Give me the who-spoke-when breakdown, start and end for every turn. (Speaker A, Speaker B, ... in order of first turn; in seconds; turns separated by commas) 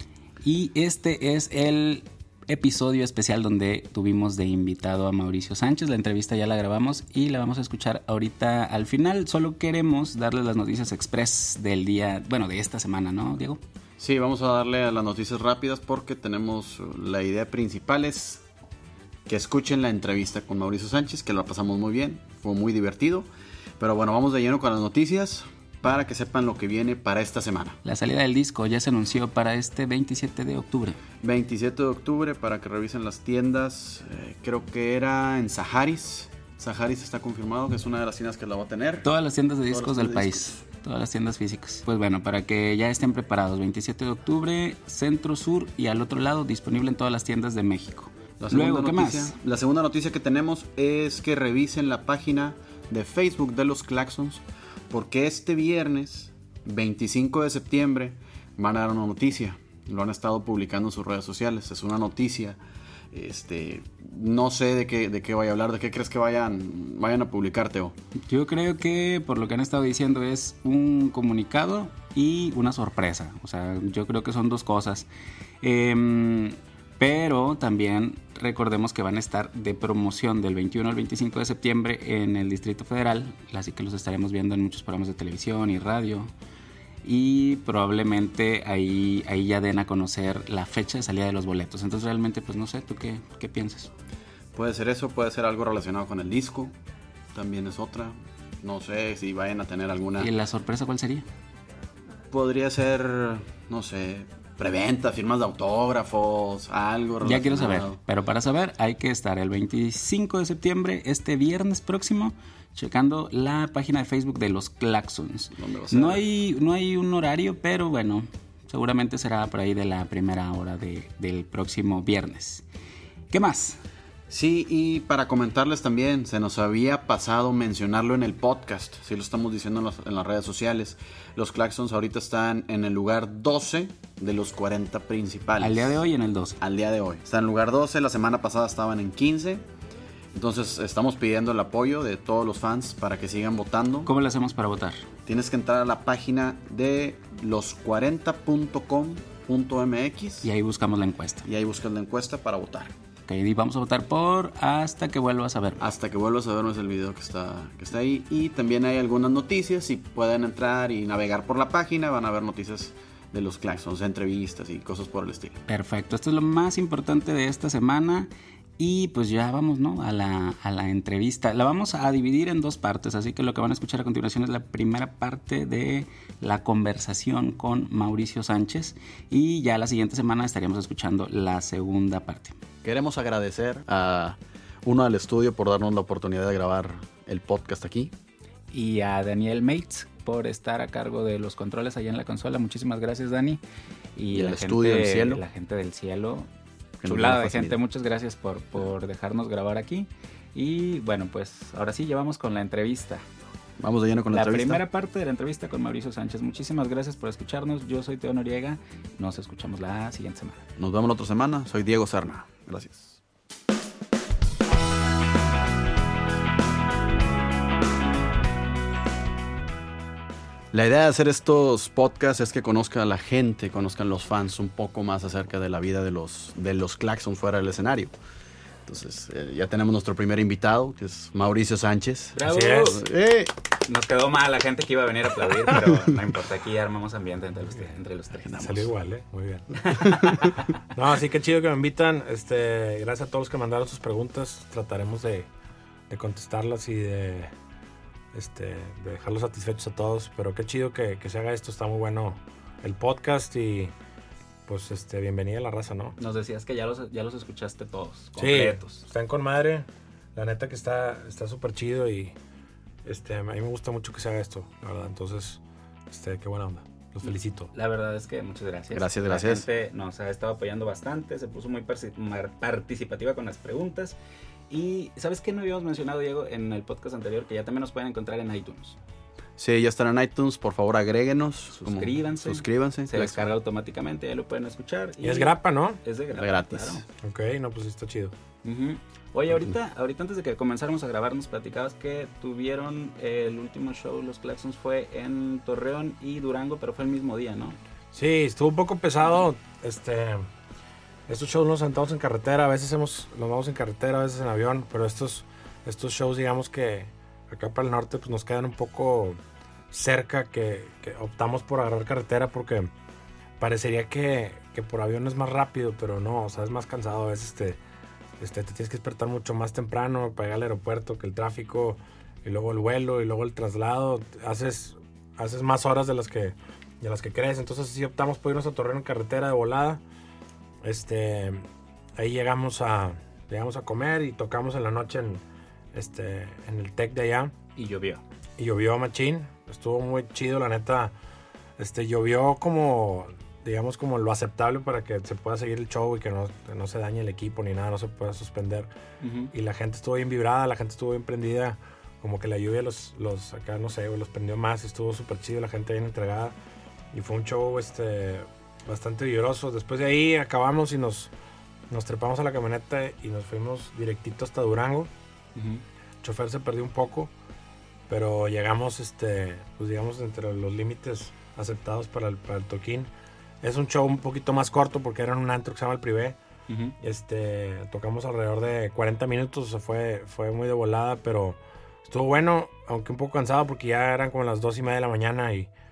Speaker A: 0.4-13.6, Speaker B: 14.0-18.4, Speaker B: 19.3-23.3, Speaker B: 23.8-27.8, Speaker A: 27.8-31.0, Speaker B: 31.2-39.1, Speaker A: 39.0-49.4, Speaker B: 39.7-40.6, Speaker B: 48.4-62.6, Speaker B: 63.1-68.0, Speaker A: 68.3-75.1, Speaker A: 75.6-86.3, Speaker A: 87.0-93.9, Speaker B: 94.5-96.7, Speaker B: 97.3-100.3, Speaker A: 100.2-101.3, Speaker B: 102.3-108.0, Speaker A: 107.2-122.7, Speaker B: 115.6-116.2, Speaker A: 123.3-123.8, Speaker B: 124.3-136.0, Speaker A: 135.6-136.6, Speaker B: 136.6-139.6, Speaker B: 140.3-144.1, Speaker A: 144.0-145.1, Speaker B: 145.3-150.5, Speaker A: 150.4-151.5, Speaker B: 151.5-152.9, Speaker A: 153.3-155.8, Speaker B: 155.8-165.6, Speaker A: 165.7-182.6, Speaker B: 182.8-188.1, Speaker A: 188.7-193.6, Speaker A: 194.2-196.5, Speaker B: 194.3-195.4, Speaker B: 197.0-197.8, Speaker A: 197.1-203.2, Speaker B: 203.8-204.8, Speaker A: 204.3-210.7, Speaker B: 210.8-213.2, Speaker B: 220.7-228.1, Speaker B: 228.9-233.5, Speaker A: 232.3-233.0, Speaker C: 232.4-232.9, Speaker A: 233.9-238.9, Speaker C: 238.5-240.1, Speaker A: 239.8-240.6, Speaker C: 240.9-245.5, Speaker C: 246.1-247.5, Speaker C: 248.3-253.9, Speaker C: 254.7-256.2, Speaker A: 256.2-259.1, Speaker C: 258.4-262.4, Speaker C: 263.1-267.7, Speaker A: 267.7-274.2, Speaker B: 268.9-269.6, Speaker A: 274.7-279.0, Speaker B: 279.6-283.4, Speaker A: 281.7-287.1, Speaker C: 285.2-286.0, Speaker B: 286.3-287.0, Speaker C: 287.2-288.3, Speaker A: 288.6-297.8, Speaker C: 298.1-300.5, Speaker C: 301.3-309.4, Speaker C: 309.9-312.9, Speaker C: 313.6-317.8, Speaker C: 318.4-330.0, Speaker C: 330.8-337.5, Speaker A: 337.8-338.2, Speaker C: 338.6-341.1, Speaker C: 341.8-348.9, Speaker A: 349.2-349.5, Speaker C: 349.5-356.6, Speaker C: 357.1-361.3, Speaker C: 361.9-365.1, Speaker A: 365.6-365.8, Speaker C: 366.2-367.3, Speaker C: 368.1-373.1, Speaker C: 373.6-376.4, Speaker A: 376.7-377.0, Speaker C: 377.0-385.7